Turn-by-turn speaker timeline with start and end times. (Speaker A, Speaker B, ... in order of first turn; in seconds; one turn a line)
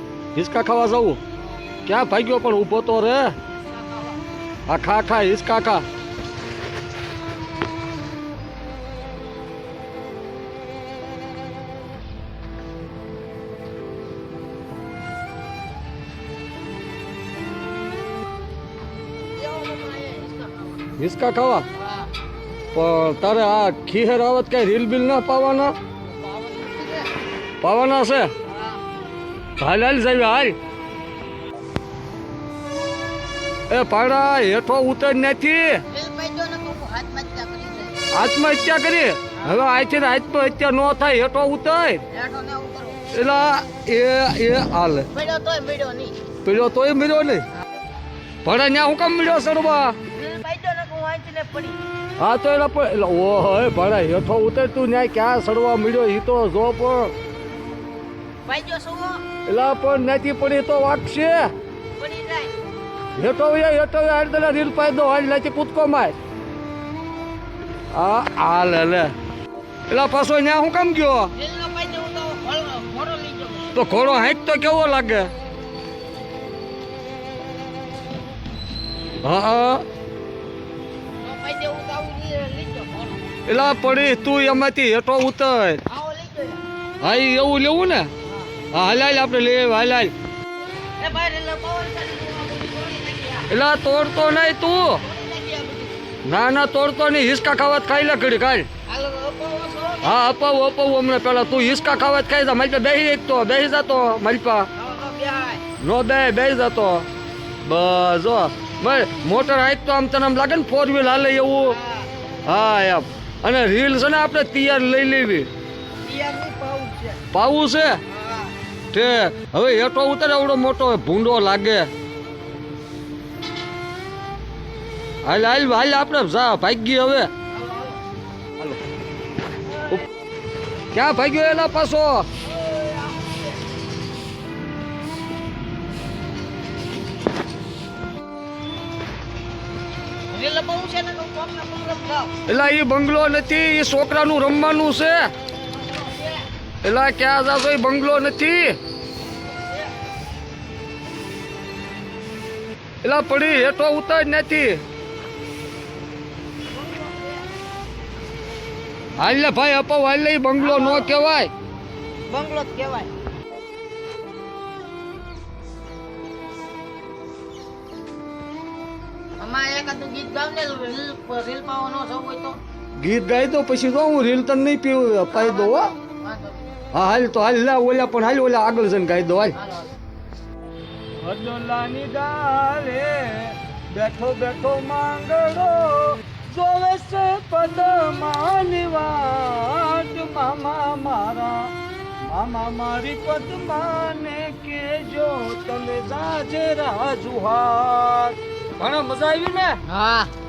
Speaker A: 0.3-1.2
Speaker A: 1.9-3.4
Speaker B: 3.7-4.2
Speaker A: 4.7-5.8
Speaker B: 19.3-20.8
Speaker A: 21.0-21.7
Speaker B: 21.8-22.1
Speaker A: 22.7-25.8
Speaker B: 26.0-27.1
Speaker A: 27.6-28.3
Speaker B: 28.5-28.8
Speaker A: 29.6-30.6
Speaker A: 33.7-35.8
Speaker B: 35.9-38.0
Speaker A: 38.1-42.0
Speaker B: 42.1-43.0
Speaker A: 43.1-45.1
Speaker B: 45.1-46.2
Speaker A: 46.4-47.5
Speaker A: 48.4-50.0
Speaker B: 50.1-51.8
Speaker A: 52.2-57.1
Speaker B: 58.5-59.2
Speaker A: 59.5-61.5
Speaker B: 62.0-62.5
Speaker A: 63.2-66.1
Speaker A: 67.9-69.1
Speaker A: 69.9-71.3
Speaker B: 71.3-73.7
Speaker A: 73.7-75.3
Speaker A: 79.2-79.8
Speaker B: 81.2-83.3
Speaker A: 83.5-85.8
Speaker B: 85.9-86.6
Speaker A: 87.0-88.1
Speaker B: 88.3-88.5
Speaker A: 88.7-90.1
Speaker B: 91.0-93.5
Speaker A: 93.5-95.0
Speaker B: 95.0-96.0
Speaker A: 96.2-98.7
Speaker B: 98.9-100.2
Speaker A: 100.0-104.7
Speaker B: 104.8-105.6
Speaker A: 105.8-107.1
Speaker A: 107.6-111.8
Speaker B: 111.6-112.1
Speaker A: 112.5-115.5
Speaker B: 116.0-117.2
Speaker A: 117.3-118.0
Speaker B: 118.1-118.5
Speaker A: 118.9-121.9
Speaker A: 125.2-127.3
Speaker B: 127.5-128.0
Speaker A: 130.9-132.3
Speaker B: 132.4-133.6
Speaker B: 140.3-142.3
Speaker A: 142.5-145.3
Speaker B: 145.7-146.4
Speaker A: 146.8-148.8
Speaker A: 153.0-154.8
Speaker B: 156.7-157.4
Speaker A: 159.2-161.5
Speaker B: 160.6-161.2
Speaker B: 162.3-163.1
Speaker B: 169.4-172.6
Speaker A: 173.0-175.9
Speaker B: 175.3-176.7
Speaker A: 176.9-179.6
Speaker B: 179.6-179.9
Speaker A: 181.2-191.7
Speaker A: 192.2-199.8
Speaker B: 199.8-200.3